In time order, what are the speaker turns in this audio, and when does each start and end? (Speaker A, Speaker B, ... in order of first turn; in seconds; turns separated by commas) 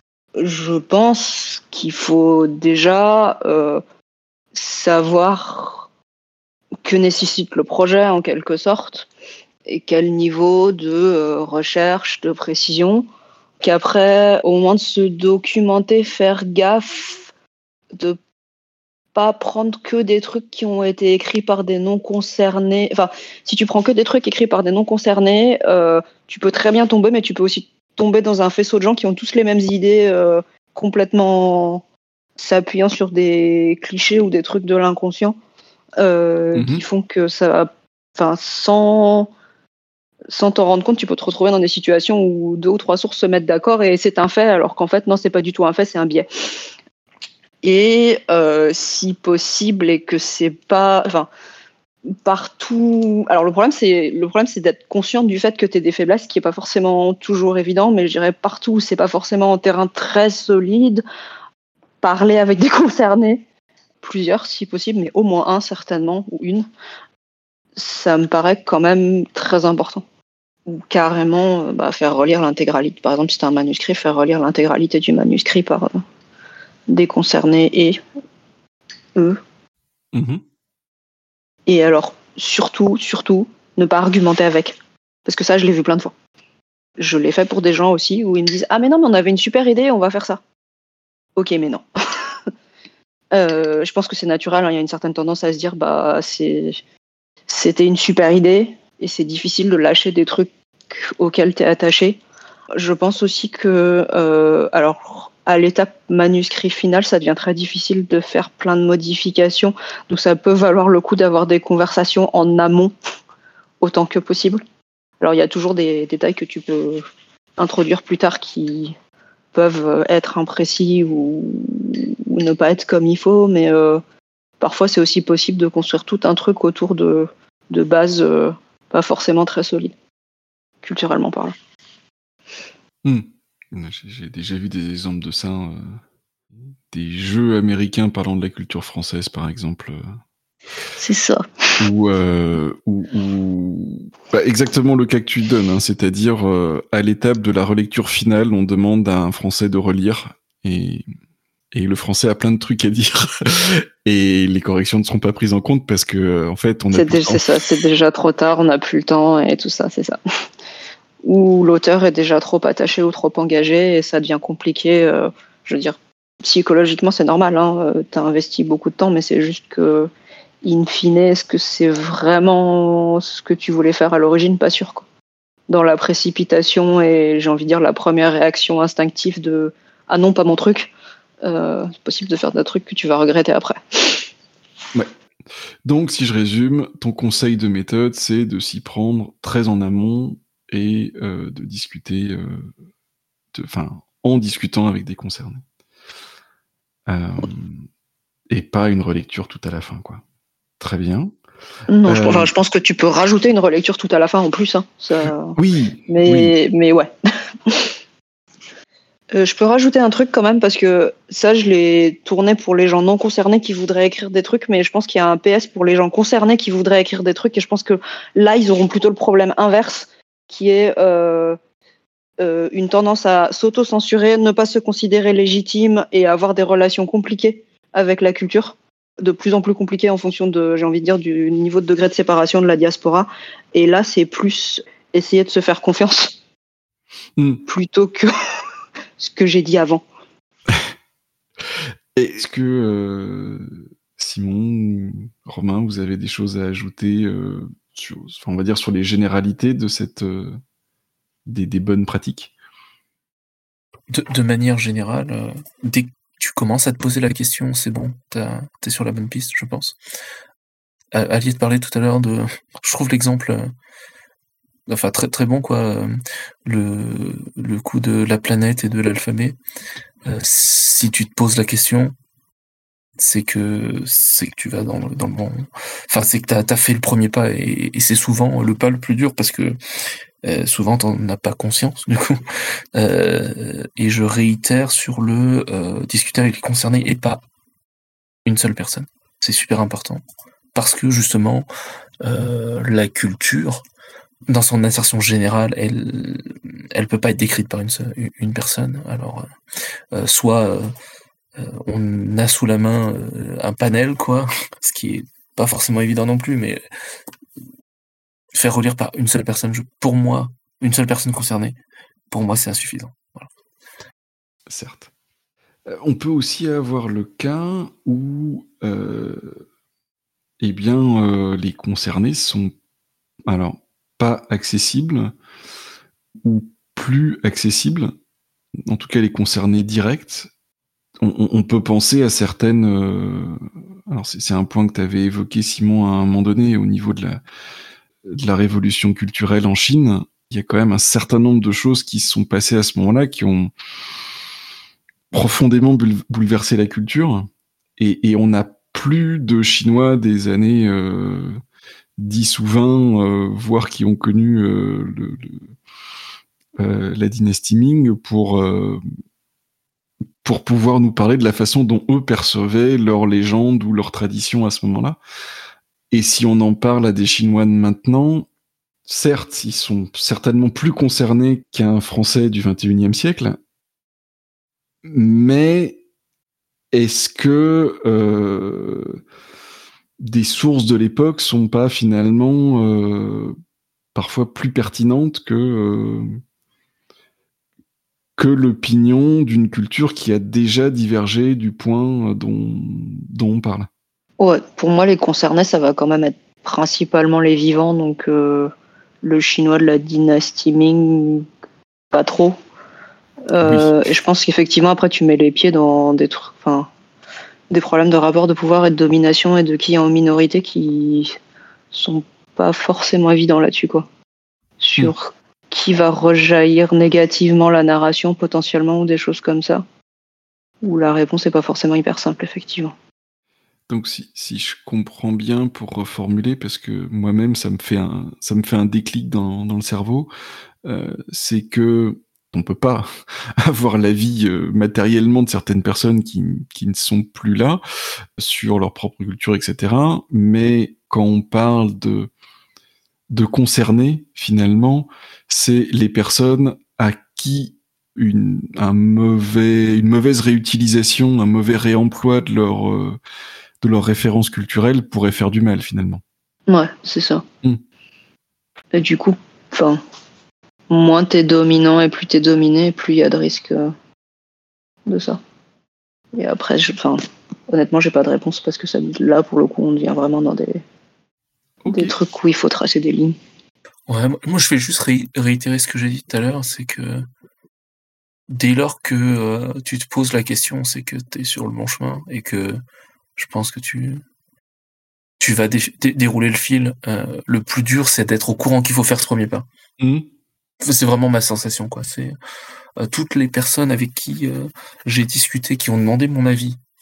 Speaker A: 0.3-3.8, Speaker A: 4.5-5.9, Speaker A: 6.8-9.1, Speaker A: 9.7-13.1, Speaker A: 13.6-17.3, Speaker A: 19.1-31.8, Speaker A: 32.4-35.4, Speaker A: 36.0-39.3, Speaker B: 36.5-36.8, Speaker A: 40.3-46.3, Speaker A: 47.6-51.3, Speaker A: 52.2-61.0, Speaker A: 62.0-63.4, Speaker A: 64.0-66.7, Speaker A: 67.8-70.0, Speaker A: 70.7-76.0, Speaker A: 76.9-78.0, Speaker A: 79.1-79.4, Speaker B: 80.1-80.4, Speaker A: 81.7-86.1, Speaker A: 87.0-90.4, Speaker A: 91.3-91.8, Speaker A: 93.3-96.8, Speaker A: 97.5-102.2, Speaker A: 102.7-112.9, Speaker A: 113.8-114.6, Speaker A: 115.2-117.0, Speaker A: 117.6-119.0, Speaker A: 119.5-124.0, Speaker A: 124.6-129.9, Speaker A: 130.8-131.5, Speaker B: 133.0-136.0, Speaker B: 136.9-140.2, Speaker A: 140.9-141.8, Speaker B: 141.8-151.0, Speaker B: 151.7-157.4, Speaker A: 156.9-160.2, Speaker A: 161.2-170.1, Speaker A: 170.6-175.0, Speaker A: 175.7-180.9, Speaker A: 181.4-184.3, Speaker B: 185.8-192.7, Speaker B: 193.5-195.6, Speaker B: 197.1-197.9, Speaker B: 198.5-200.2, Speaker B: 200.8-201.3, Speaker A: 201.9-205.6, Speaker B: 202.1-202.5, Speaker B: 205.6-206.5, Speaker A: 206.1-207.1, Speaker A: 207.7-207.9, Speaker A: 209.3-221.6, Speaker A: 222.4-236.4, Speaker B: 237.4-237.6, Speaker A: 237.7-238.3, Speaker A: 239.2-240.0, Speaker B: 242.1-250.6, Speaker B: 251.4-252.5, Speaker C: 254.1-260.0, Speaker C: 261.1-263.7, Speaker C: 264.9-269.6, Speaker C: 270.2-272.1, Speaker C: 273.2-279.8, Speaker C: 280.4-282.4, Speaker C: 282.9-287.4, Speaker C: 288.4-290.2, Speaker C: 290.7-291.7, Speaker C: 292.2-293.8, Speaker C: 294.5-299.5, Speaker C: 300.1-300.9, Speaker C: 301.6-306.8, Speaker C: 308.5-311.8, Speaker C: 312.3-313.5, Speaker B: 314.7-315.1, Speaker B: 315.9-319.6, Speaker B: 320.6-322.7, Speaker B: 323.5-325.3, Speaker B: 326.4-328.1, Speaker B: 328.9-330.5, Speaker B: 331.2-337.4, Speaker B: 338.2-343.7, Speaker B: 345.3-351.6, Speaker B: 352.2-355.7, Speaker B: 356.8-359.0, Speaker B: 360.4-365.2, Speaker B: 366.1-368.5, Speaker B: 369.1-373.6, Speaker B: 375.0-376.0, Speaker B: 376.9-379.2, Speaker B: 380.2-383.6, Speaker B: 384.1-386.4, Speaker B: 388.4-393.9, Speaker A: 394.4-401.5, Speaker A: 402.1-402.6, Speaker A: 403.5-406.9, Speaker B: 403.6-403.9, Speaker A: 407.7-411.4, Speaker A: 411.9-414.1, Speaker A: 414.8-419.8, Speaker A: 420.8-422.9, Speaker B: 423.9-430.3, Speaker B: 430.8-433.1, Speaker B: 433.6-437.8, Speaker B: 438.4-442.3, Speaker B: 443.3-453.2, Speaker B: 453.8-456.2, Speaker A: 456.7-457.4, Speaker A: 458.9-460.0, Speaker A: 460.9-463.9, Speaker A: 465.1-465.4, Speaker A: 466.3-470.8, Speaker B: 471.8-472.1, Speaker A: 471.9-473.4, Speaker C: 474.1-477.3, Speaker C: 478.5-482.8, Speaker C: 483.4-484.2, Speaker C: 485.4-489.6, Speaker B: 490.0-490.3, Speaker C: 490.8-492.4, Speaker C: 493.0-496.8